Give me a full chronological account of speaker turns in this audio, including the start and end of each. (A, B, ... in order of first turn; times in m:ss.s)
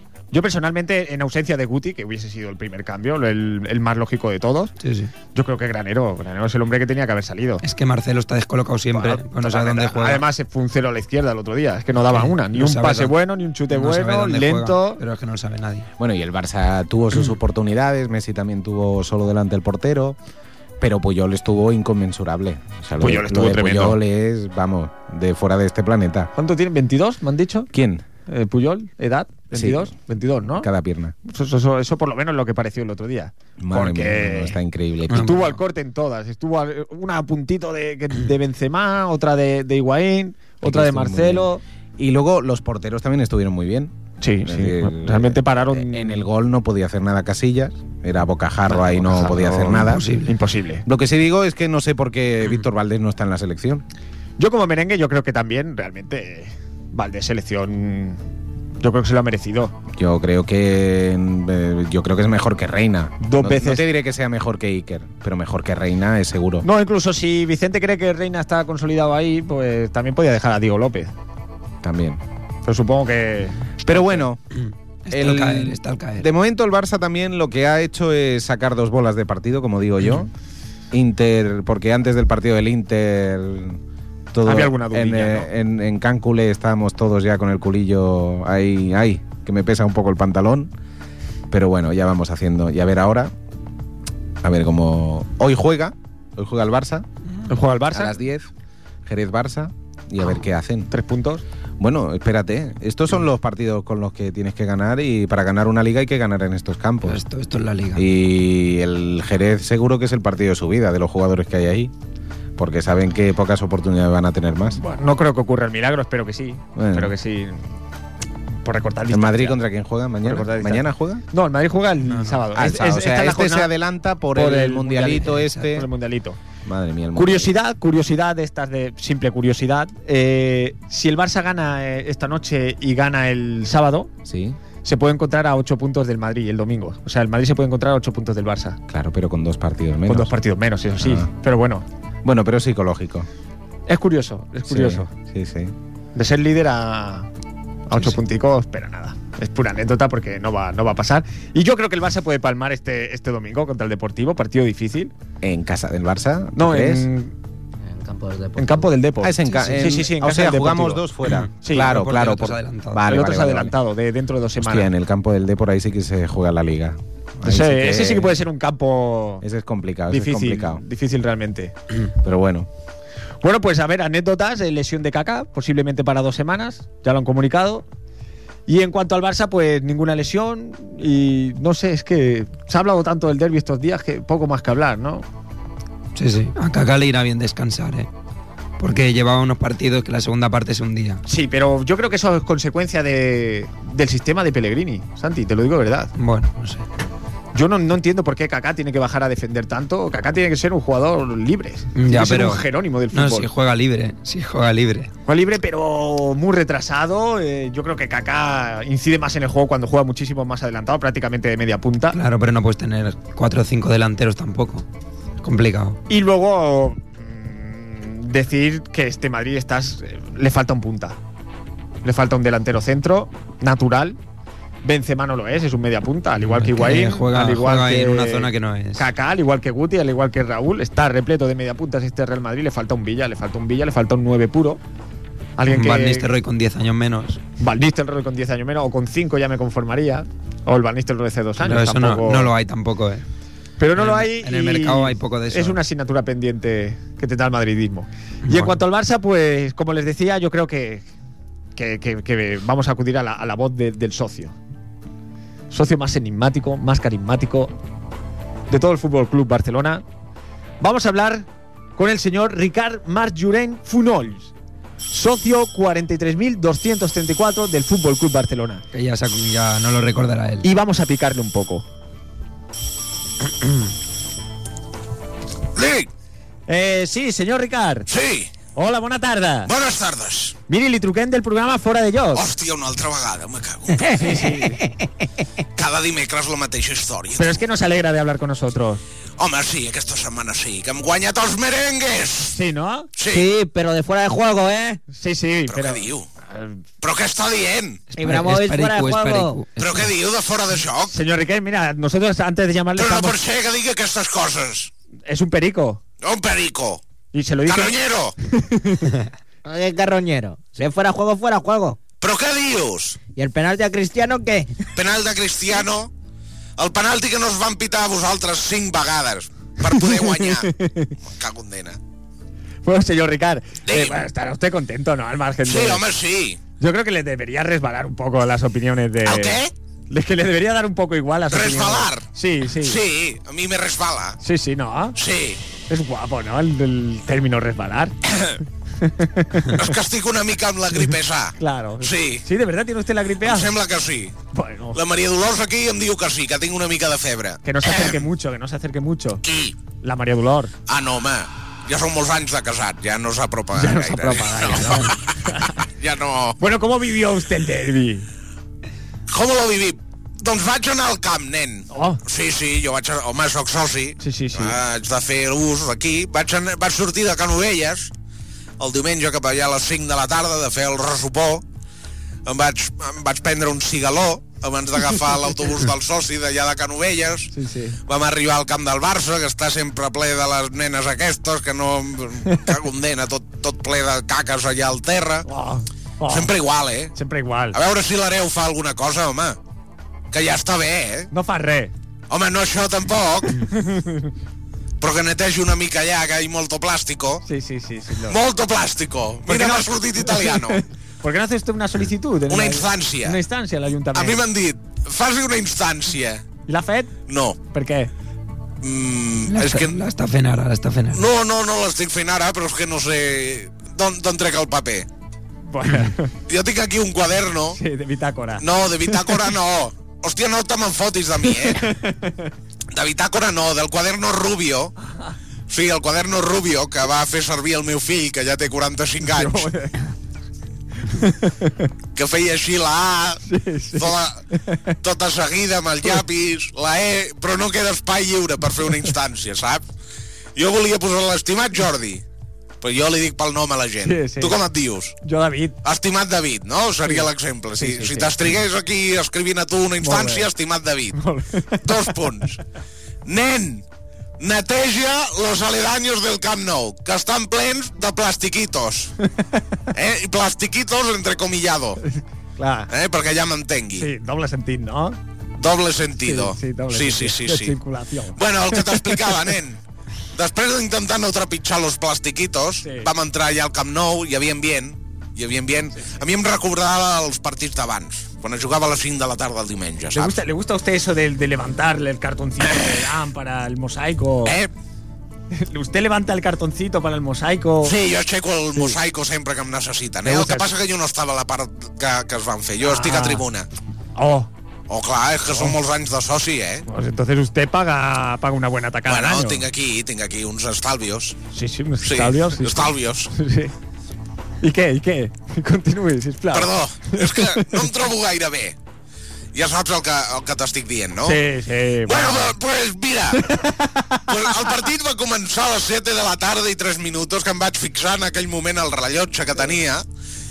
0:00.3-0:04.7 A
0:04.8-0:05.1 B
0:05.3-0:07.6 A
0:07.6-0:10.2 B
0:08.9-0:15.0 A
0:12.1-0:13.1 B
0:13.7-0:15.9 B
0:16.0-0:20.2 C
0:20.8-0:26.3 C
0:23.0-0:24.0 A
0:26.3-0:27.7 A
0:27.7-0:28.0 C
0:28.2-0:30.7 A
0:29.5-0:29.9 C
0:30.5-0:31.1 C
0:31.2-0:34.6 A
0:33.6-0:35.3 C
0:35.1-0:41.6 A
0:35.1-0:35.5 B
0:40.6-0:50.0 C
0:44.2-0:46.2 A
0:48.7-0:50.8 A
0:49.7-0:50.3 B
0:50.8-0:53.8 C
0:54.4-0:58.2 A
0:58.8-0:59.8 A
1:00.0-1:06.6 C
1:03.2-1:03.8 A
1:06.6-1:11.1 A
1:11.8-1:12.2 C
1:12.6-1:14.2 A
1:13.8-1:14.4 C
1:14.6-1:16.2 B
1:15.1-1:20.3 C
1:20.9-1:23.8 C
1:24.3-1:30.7 C
1:24.4-1:25.5 A
1:31.5-1:33.3 C
1:34.4-1:37.0 C
1:37.5-1:38.2 A
1:37.9-1:38.5 C
1:39.0-1:40.9 C
1:40.9-1:41.4 A
1:41.8-1:47.2 C
1:47.0-1:48.0 B
1:47.9-1:51.9 C
1:52.6-1:54.8 C
1:54.7-1:57.6 A
1:56.8-1:57.1 C
1:58.6-1:59.6 A
1:59.1-2:01.2 C
2:00.2-2:03.7 A
2:02.1-2:02.4 B
2:02.5-2:05.9 C
2:04.3-2:06.4 A
2:06.6-2:07.5 C
2:07.1-2:14.1 A
2:14.2-2:14.6 C
2:14.8-2:18.8 A
2:18.9-2:20.4 C
2:20.0-2:21.8 A
2:21.0-2:21.3 C
2:22.2-2:23.3 C
2:23.9-2:25.1 A
2:24.7-2:25.7 C
2:26.1-2:27.3 A
2:27.9-2:35.1 A
2:35.4-2:37.1 C
2:36.5-2:37.3 A
2:37.8-2:38.9 D
2:38.6-2:41.0 A
2:39.2-2:43.7 C
2:41.2-2:43.0 B
2:41.6-2:41.9 A
2:43.0-2:44.9 A
2:44.6-2:48.4 C
2:47.4-2:49.4 A
2:49.4-2:50.8 C
2:50.1-2:51.7 A
2:52.2-2:52.7 C
2:53.4-2:57.8 A
2:58.7-3:05.2 A
3:06.2-3:08.1 B
3:08.8-3:11.2 B
3:11.2-3:16.1 A
3:16.2-3:16.8 B
3:17.5-3:23.5 A
3:22.0-3:25.1 B
3:25.2-3:32.2 A
3:32.1-3:34.8 B
3:35.4-3:36.0 B
3:36.1-3:41.2 A
3:42.0-3:44.2 A
3:44.8-3:54.8 A
3:46.4-3:49.1 B
3:55.6-3:56.3 A
3:55.7-3:57.4 B
3:57.6-4:02.5 A
4:01.6-4:03.2 B
4:03.8-4:11.1 A
4:03.9-4:05.8 B
4:08.4-4:08.8 B
4:11.8-4:14.6 A
4:15.7-4:17.7 A
4:18.7-4:20.0 A
4:20.8-4:24.5 A
4:25.1-4:28.8 A
4:28.9-4:30.6 B
4:30.6-4:31.8 A
4:35.8-4:36.1 E
4:36.7-4:38.1 A
4:38.1-4:38.5 E
4:38.7-4:39.7 A
4:39.6-4:40.6 E
4:40.7-4:42.5 A
4:42.3-4:44.1 E
4:44.0-4:44.9 A
4:45.8-4:47.6 E
4:47.3-4:49.0 A
4:49.4-4:52.6 E
4:52.5-4:53.1 A
4:53.2-4:53.5 E
4:53.3-4:55.0 D
4:55.1-4:56.8 A
4:55.7-4:56.2 E
4:57.0-4:58.0 E
4:58.1-4:59.7 B
4:58.2-4:59.6 D
4:59.8-5:01.1 E
4:59.8-5:00.1 A
5:01.0-5:03.4 A
5:03.0-5:04.9 E
5:05.2-5:06.0 A
5:06.2-5:07.0 E
5:07.3-5:09.2 A
5:07.7-5:08.3 E
5:09.6-5:12.0 D
5:12.2-5:13.2 E
5:13.3-5:14.8 D
5:14.9-5:16.1 E
5:16.8-5:20.7 E
5:19.8-5:21.2 A
5:21.2-5:22.0 E
5:22.8-5:26.0 A
5:23.9-5:24.2 E
5:25.6-5:26.6 E
5:26.8-5:33.0 A
5:29.2-5:29.7 E
5:31.5-5:32.2 E
5:32.8-5:34.4 E
5:34.4-5:35.2 A
5:35.2-5:35.6 E
5:35.9-5:38.1 A
5:39.0-5:39.9 A
5:39.7-5:42.4 E
5:41.6-5:43.8 A
5:43.4-5:44.3 E
5:44.5-5:45.0 A
5:44.9-5:48.2 E
5:47.6-5:49.4 A
5:49.4-5:49.8 E
5:50.0-5:50.7 A
5:50.9-5:55.3 E
5:53.7-5:55.8 A
5:56.0-5:56.6 E
5:56.6-5:58.2 A
5:59.3-6:08.1 E
6:01.9-6:02.2 A
6:04.2-6:04.8 A
6:08.8-6:11.6 E
6:12.4-6:17.5 E
6:17.5-6:18.0 A
6:18.1-6:25.4 E
6:25.4-6:26.5 A
6:26.3-6:27.1 E
6:27.1-6:27.8 A
6:27.7-6:29.6 E
6:30.3-6:31.3 E
6:31.3-6:31.9 A
6:32.3-6:33.5 E
6:33.5-6:34.3 A
6:35.0-6:37.4 E
6:37.4-6:38.4 A
6:38.3-6:40.8 E
6:39.4-6:44.4 A
6:42.5-6:43.4 E
6:44.1-6:46.4 E
6:46.6-6:48.1 A
6:47.3-6:47.6 E
6:48.8-6:49.9 E
6:49.5-6:51.3 B
6:51.1-6:55.1 E
6:55.7-6:56.3 A
6:56.5-6:57.8 E
6:57.7-6:59.5 A
6:58.6-7:01.9 E
7:01.5-7:02.5 A
7:02.9-7:04.9 E
7:05.7-7:09.7 E
7:09.2-7:10.0 A
7:11.1-7:11.9 A
7:12.1-7:13.4 E
7:13.4-7:14.9 A
7:14.0-7:14.4 E
7:15.0-7:19.8 E
7:20.6-7:22.2 E
7:22.8-7:25.1 E
7:24.0-7:24.6 A
7:25.2-7:25.8 A
7:25.8-7:31.2 E
7:27.8-7:28.5 A
7:30.0-7:30.5 A
7:31.1-7:32.3 A
7:31.8-7:32.6 E
7:33.2-7:33.8 E
7:34.4-7:39.1 E
7:39.9-7:42.0 E
7:42.1-7:42.9 A
7:42.9-7:44.1 E
7:43.9-7:45.2 A
7:45.6-7:47.8 E
7:46.2-7:49.4 A
7:48.3-7:49.8 E
7:50.3-8:00.4 E
7:52.8-7:53.1 A
8:00.1-8:04.6 A
8:02.6-8:02.9 E
8:05.5-8:08.0 A
8:07.8-8:13.7 E
8:10.2-8:10.7 A
8:12.8-8:13.4 A
8:14.2-8:14.5 A
8:14.9-8:16.8 E
8:16.9-8:19.7 A
8:19.0-8:21.4 E
8:21.5-8:23.7 A
8:22.0-8:23.3 E
8:24.6-8:27.8 A
8:26.5-8:28.7 E
8:29.5-8:31.4 E
8:31.2-8:32.6 A
8:32.0-8:33.5 E
8:33.3-8:34.5 A
8:34.3-8:40.0 E